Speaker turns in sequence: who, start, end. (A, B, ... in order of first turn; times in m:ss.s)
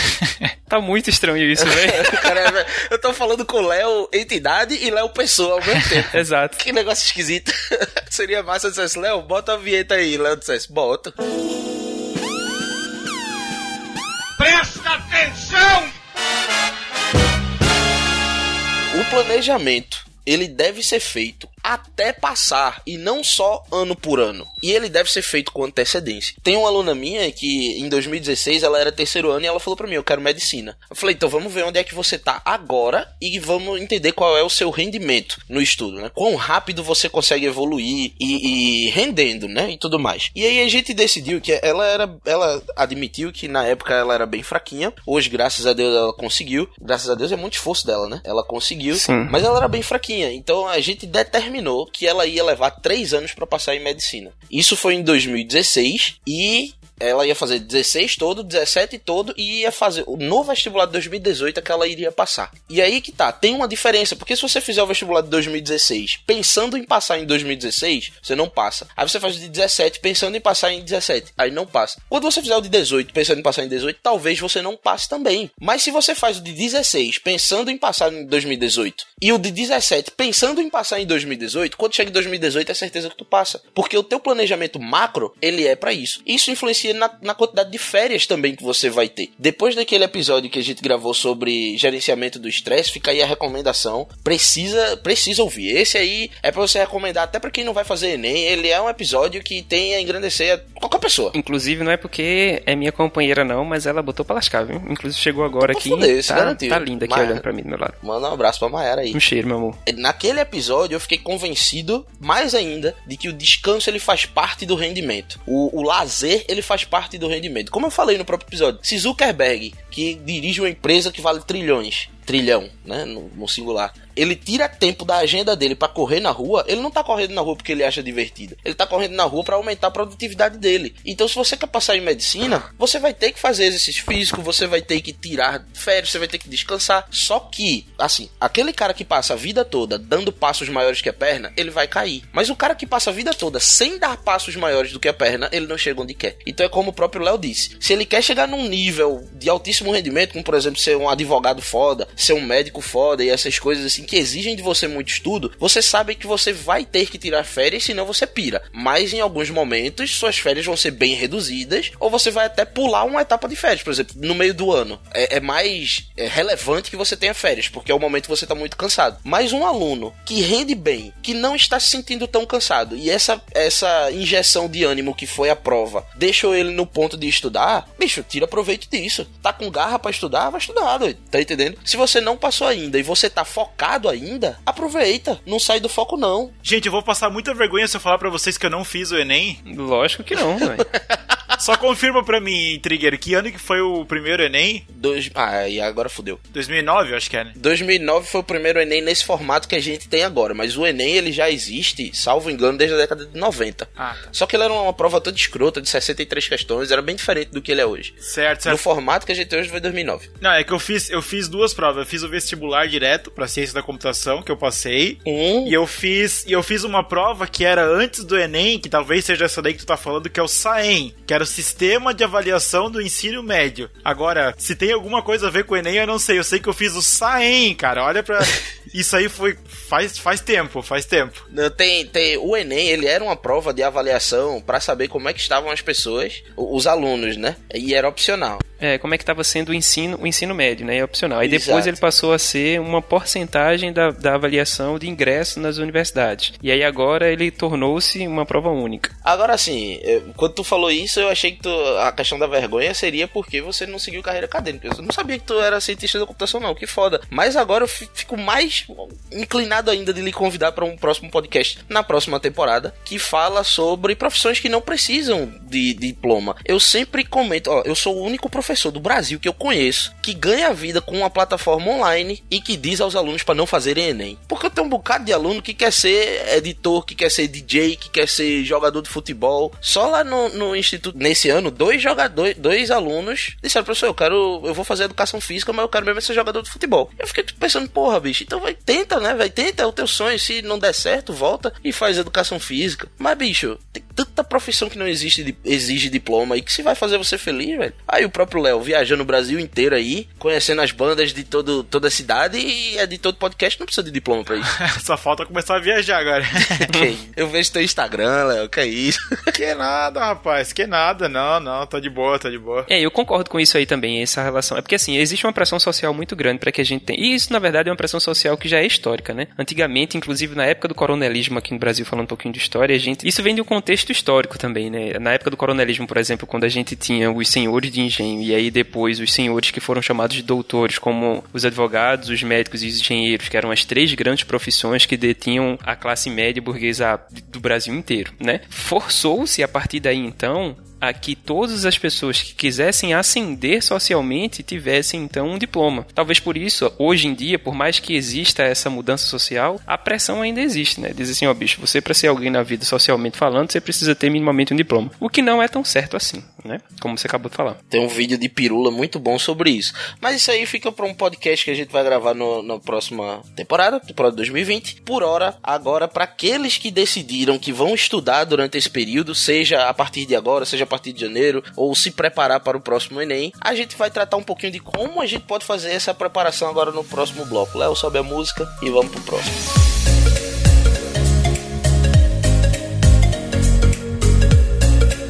0:00.7-0:02.3 A
0:01.6-0:11.1 B
0:06.1-0:06.6 A
0:18.9-1:41.3 B
0:48.9-0:49.3 A
1:41.3-1:48.0 A
1:45.6-1:47.4 B
1:48.0-1:49.2 B
1:49.1-1:49.8 A
1:49.9-3:06.5 B
3:06.6-3:09.6 C
3:09.6-3:10.9 A
3:10.9-3:11.4 B
3:11.6-3:14.8 C
3:14.9-3:16.4 B
3:16.5-3:17.6 C
3:17.6-3:28.1 B
3:24.0-3:24.3 C
3:28.2-3:28.8 C
3:28.6-3:30.3 B
3:30.4-3:51.4 C
3:35.2-3:35.8 B
3:51.5-3:58.6 B
3:58.8-4:09.1 A
4:01.4-4:02.0 B
4:09.2-5:04.8 B
5:04.8-5:06.9 C
5:06.9-5:09.2 B
5:09.5-5:12.9 C
5:12.9-5:57.8 A
5:57.9-6:19.5 B